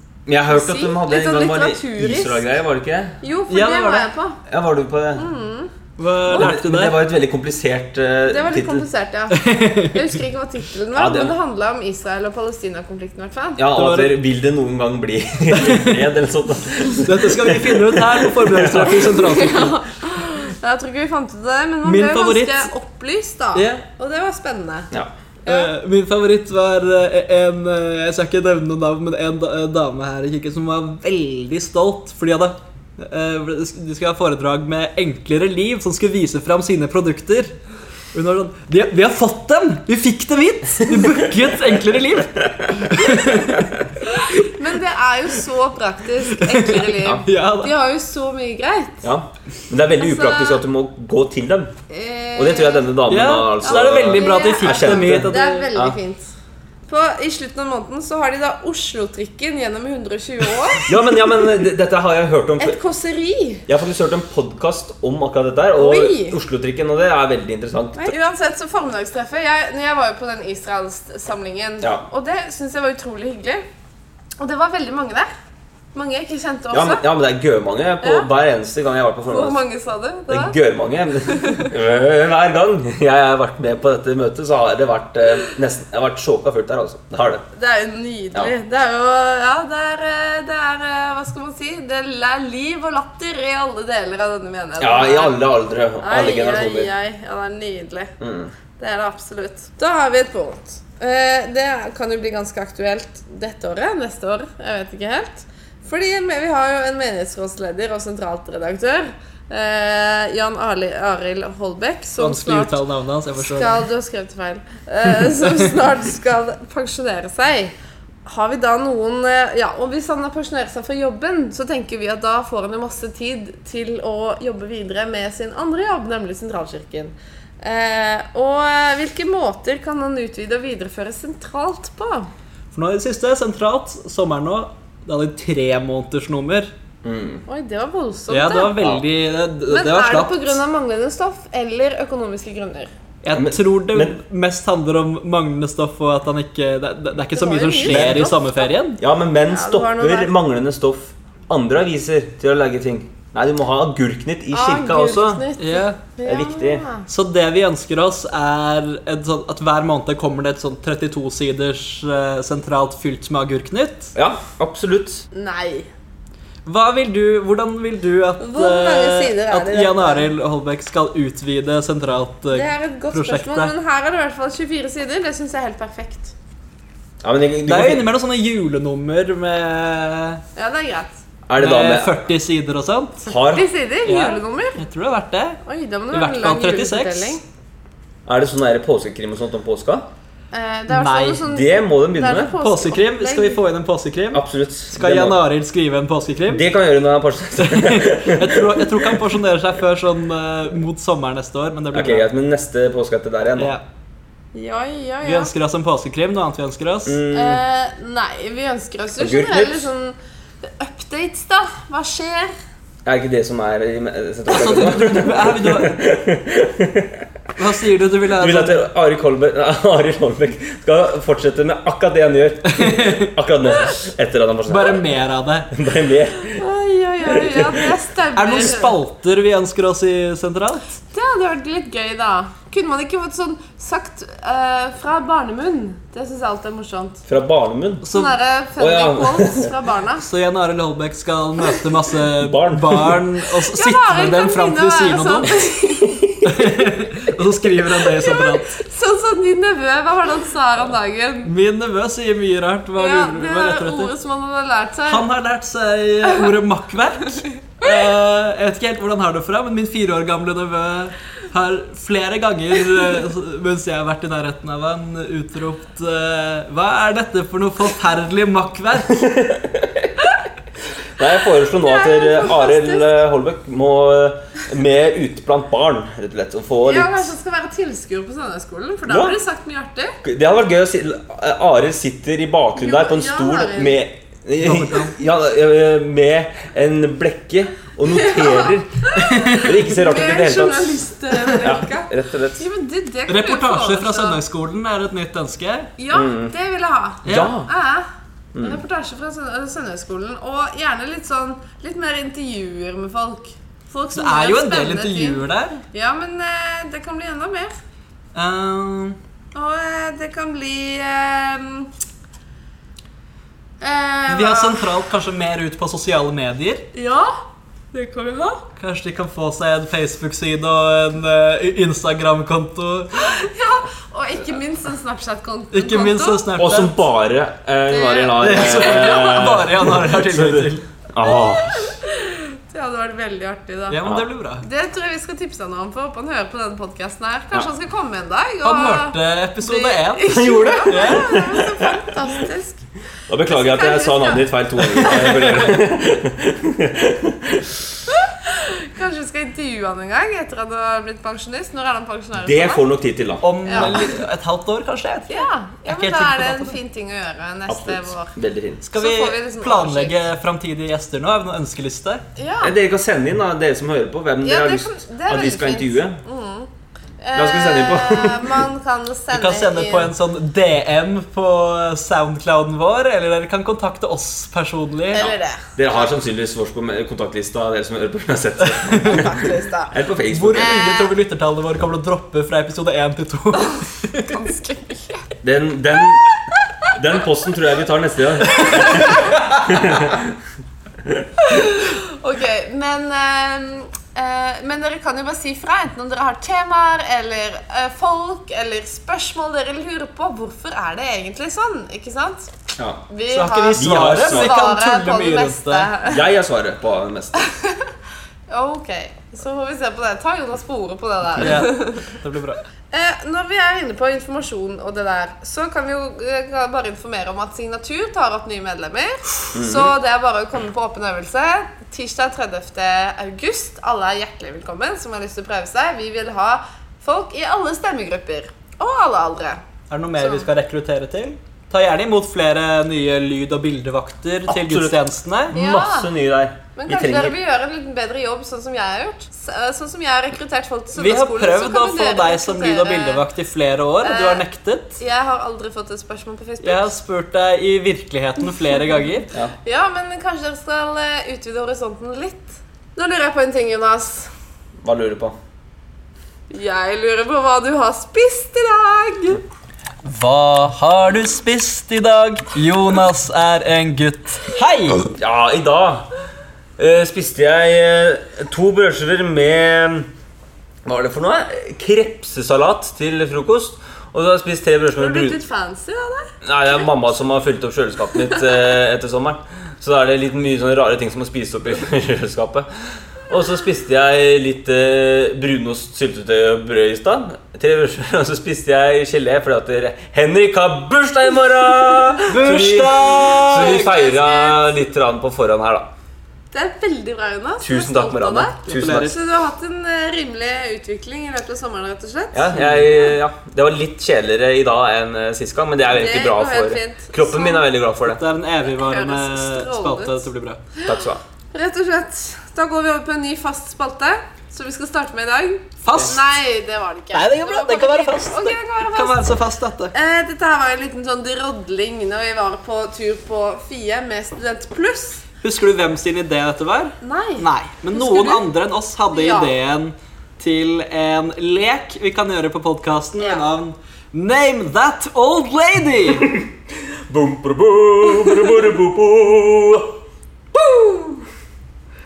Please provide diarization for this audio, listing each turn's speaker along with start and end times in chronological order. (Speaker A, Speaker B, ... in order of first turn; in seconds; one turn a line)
Speaker A: 0.2-3.2
Speaker B: 0.5-2.4
Speaker B: 3.2-4.4
Speaker C: 3.5-4.1
Speaker A: 4.5-5.3
Speaker B: 5.2-5.7
Speaker C: 6.0-7.0
Speaker A: 6.3-8.8
Speaker B: 8.3-13.6
Speaker C: 9.3-10.0
Speaker A: 10.9-11.3
Speaker A: 13.6-19.1
Speaker C: 13.7-14.1
Speaker C: 15.5-16.0
Speaker C: 17.0-19.8
Speaker B: 19.1-24.9
Speaker C: 21.8-22.7
Speaker C: 23.5-23.8
Speaker B: 25.4-25.7
Speaker C: 25.4-37.5
Speaker C: 38.1-43.7
Speaker A: 42.4-43.9
Speaker B: 44.1-49.0
Speaker C: 46.3-47.7
Speaker A: 49.0-51.7
Speaker B: 50.0-50.6
Speaker B: 51.9-52.9
Speaker A: 52.4-56.0
Speaker C: 53.1-55.7
Speaker B: 53.6-56.3
Speaker B: 56.9-61.0
Speaker A: 60.9-62.8
Speaker B: 62.6-63.6
Speaker A: 63.7-68.1
Speaker B: 65.8-66.4
Speaker B: 68.0-73.6
Speaker B: 74.4-75.3
Speaker B: 75.9-77.0
Speaker A: 76.7-79.6
Speaker B: 78.0-78.3
Speaker B: 79.3-80.5
Speaker A: 80.3-87.5
Speaker B: 81.2-81.7
Speaker B: 87.5-95.4
Speaker A: 94.8-96.9
Speaker B: 96.0-98.1
Speaker A: 98.2-98.5
Speaker B: 98.8-112.8
Speaker C: 112.2-113.8
Speaker B: 113.4-117.7
Speaker B: 118.2-132.3
Speaker C: 132.7-136.7
Speaker A: 137.0-137.4
Speaker B: 137.5-138.8
Speaker C: 138.3-140.6
Speaker B: 139.7-142.9
Speaker C: 143.2-149.0
Speaker A: 143.3-144.2
Speaker B: 147.3-148.7
Speaker A: 147.9-148.3
Speaker A: 149.0-155.4
Speaker B: 149.5-150.3
Speaker B: 154.5-157.1
Speaker C: 155.6-156.0
Speaker A: 156.2-156.8
Speaker C: 157.1-164.1
Speaker A: 164.1-165.2
Speaker B: 165.3-165.9
Speaker C: 166.7-173.7
Speaker B: 168.4-170.3
Speaker B: 172.5-176.3
Speaker A: 177.2-178.1
Speaker C: 177.7-180.4
Speaker B: 180.6-181.1
Speaker A: 181.5-182.2
Speaker C: 181.6-183.2
Speaker A: 183.2-183.7
Speaker B: 183.3-184.8
Speaker C: 184.0-185.6
Speaker B: 185.6-187.4
Speaker C: 186.1-187.4
Speaker A: 188.2-190.1
Speaker B: 190.5-193.6
Speaker C: 190.9-191.4
Speaker A: 191.4-192.6
Speaker C: 192.6-196.7
Speaker A: 194.3-195.4
Speaker A: 196.5-199.2
Speaker C: 197.6-202.3
Speaker A: 201.9-203.7
Speaker C: 203.6-203.8
Speaker B: 204.5-205.5
Speaker C: 205.2-207.2
Speaker A: 207.1-207.6
Speaker B: 207.3-212.5
Speaker A: 209.2-209.9
Speaker A: 213.0-217.2
Speaker C: 214.5-216.0
Speaker C: 217.6-218.8
Speaker A: 218.3-225.0
Speaker C: 222.7-223.3
Speaker C: 224.7-225.7
Speaker A: 225.7-226.6
Speaker B: 226.6-229.0
Speaker A: 227.2-227.9
Speaker C: 228.3-231.0
Speaker B: 231.1-237.2
Speaker A: 237.2-238.1
Speaker C: 238.0-238.3
Speaker B: 238.1-240.2
Speaker A: 238.8-239.7
Speaker C: 240.2-245.5
Speaker A: 242.4-243.2
Speaker B: 243.7-246.1
Speaker A: 246.0-246.4
Speaker C: 246.4-248.8
Speaker B: 247.8-251.5
Speaker C: 251.4-254.1
Speaker B: 253.0-255.2
Speaker C: 255.1-269.2
Speaker A: 269.1-270.1
Speaker A: 271.2-277.3
Speaker B: 271.7-273.1
Speaker B: 276.9-280.2
Speaker A: 279.1-279.4
Speaker A: 280.2-292.6
Speaker B: 282.8-284.0
Speaker C: 284.6-285.2
Speaker B: 288.1-294.4
Speaker C: 289.1-289.7
Speaker C: 293.3-295.9
Speaker B: 296.0-307.7
Speaker A: 296.1-296.5
Speaker C: 297.2-297.6
Speaker A: 297.2-297.7
Speaker A: 298.6-298.8
Speaker C: 304.1-305.8
Speaker C: 308.3-309.2
Speaker B: 309.5-311.9
Speaker B: 313.8-314.9
Speaker C: 314.3-316.9
Speaker B: 316.9-317.4
Speaker B: 317.9-318.7
Speaker C: 318.8-323.3
Speaker B: 323.1-326.5
Speaker C: 325.7-327.0
Speaker A: 326.6-331.9
Speaker B: 327.9-329.4
Speaker C: 328.4-330.9
Speaker B: 331.2-334.0
Speaker C: 333.9-334.6
Speaker B: 334.6-342.8
Speaker C: 338.6-341.3
Speaker A: 340.2-342.1
Speaker A: 343.3-347.8
Speaker B: 343.5-345.4
Speaker C: 345.1-345.7
Speaker B: 348.1-352.8
Speaker A: 352.4-354.0
Speaker C: 353.4-356.8
Speaker B: 353.6-353.9
Speaker B: 355.3-358.3
Speaker A: 357.7-358.8
Speaker C: 358.8-362.2
Speaker B: 359.0-360.2
Speaker B: 362.4-362.7
Speaker A: 362.6-366.2
Speaker B: 364.4-366.7
Speaker B: 367.2-370.1
Speaker A: 367.3-368.6
Speaker C: 369.3-375.2
Speaker B: 375.1-376.1
Speaker A: 375.1-380.7
Speaker C: 378.6-379.2
Speaker B: 379.0-379.9
Speaker C: 380.3-384.4
Speaker B: 380.5-381.1
Speaker B: 384.2-385.3
Speaker A: 385.4-386.2
Speaker A: 386.9-390.4
Speaker B: 388.5-389.4
Speaker C: 388.8-389.4
Speaker B: 391.4-402.5
Speaker A: 402.8-403.0
Speaker B: 403.1-406.2
Speaker C: 403.3-405.9
Speaker A: 403.7-404.6
Speaker A: 406.1-407.5
Speaker B: 407.4-407.9
Speaker B: 408.5-412.1
Speaker C: 411.4-412.6
Speaker B: 412.9-429.6
Speaker A: 419.5-419.9
Speaker C: 429.9-435.6
Speaker B: 430.2-430.5
Speaker A: 434.5-437.3
Speaker B: 435.5-436.1
Speaker B: 436.8-443.2
Speaker C: 440.9-445.0
Speaker B: 444.0-444.4
Speaker B: 445.0-446.9
Speaker C: 446.6-449.3
Speaker B: 449.6-454.3
Speaker A: 454.8-455.3
Speaker B: 456.5-459.4
Speaker C: 460.0-465.1
Speaker A: 465.1-466.1
Speaker A: 466.8-470.1
Speaker A: 470.9-475.4
Speaker B: 474.9-476.3
Speaker A: 476.4-482.7
Speaker A: 483.3-495.9
Speaker C: 492.3-493.9
Speaker B: 493.4-494.7
Speaker B: 496.5-503.1
Speaker A: 497.6-499.1
Speaker C: 498.7-499.1
Speaker A: 502.3-508.2
Speaker C: 502.5-502.8
Speaker B: 505.9-507.6
Speaker C: 508.0-510.6
Speaker B: 508.6-510.9
Speaker A: 510.8-511.2
Speaker B: 511.5-519.3
Speaker C: 515.8-516.2
Speaker C: 517.1-519.9
Speaker B: 519.9-525.2
Speaker C: 525.4-536.3
Speaker B: 527.0-528.5
Speaker B: 529.1-529.5
Speaker B: 533.2-533.4
Speaker A: 537.1-540.0
Speaker B: 540.6-541.2